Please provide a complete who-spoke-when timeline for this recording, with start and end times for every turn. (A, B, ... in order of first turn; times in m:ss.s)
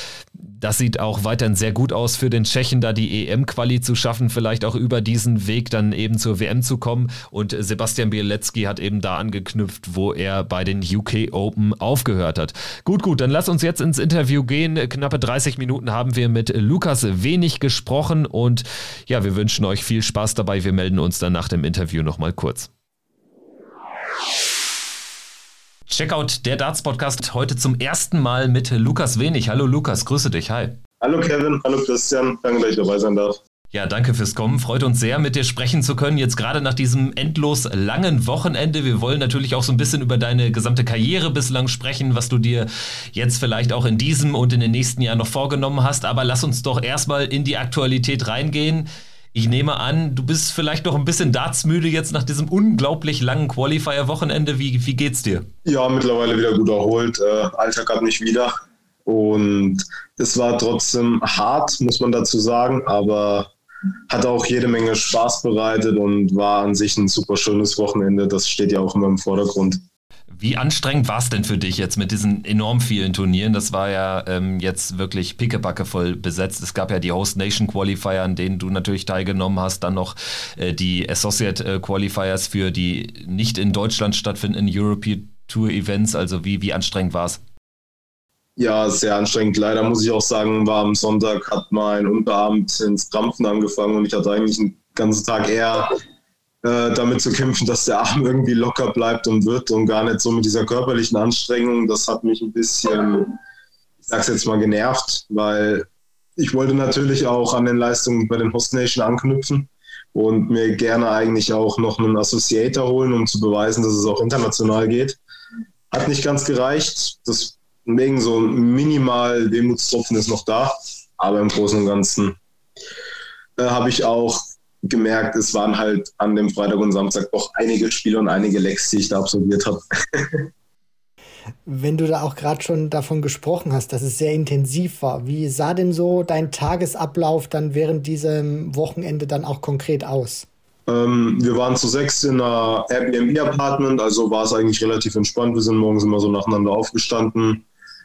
0:00.5-0:22.7 A
0:25.9-0:30.8 A
0:31.0-0:33.4 B
0:33.7-0:55.5 A
0:55.6-0:58.5 B
0:59.0-1:03.5 B
1:04.1-1:09.8 B
1:10.3-1:27.4 A
1:28.6-1:35.9 B
1:36.6-1:43.4 B
1:44.0-1:55.2 B
1:55.9-2:02.4 B
2:03.6-2:10.5 B
2:11.6-2:20.5 C
2:20.9-2:27.6 B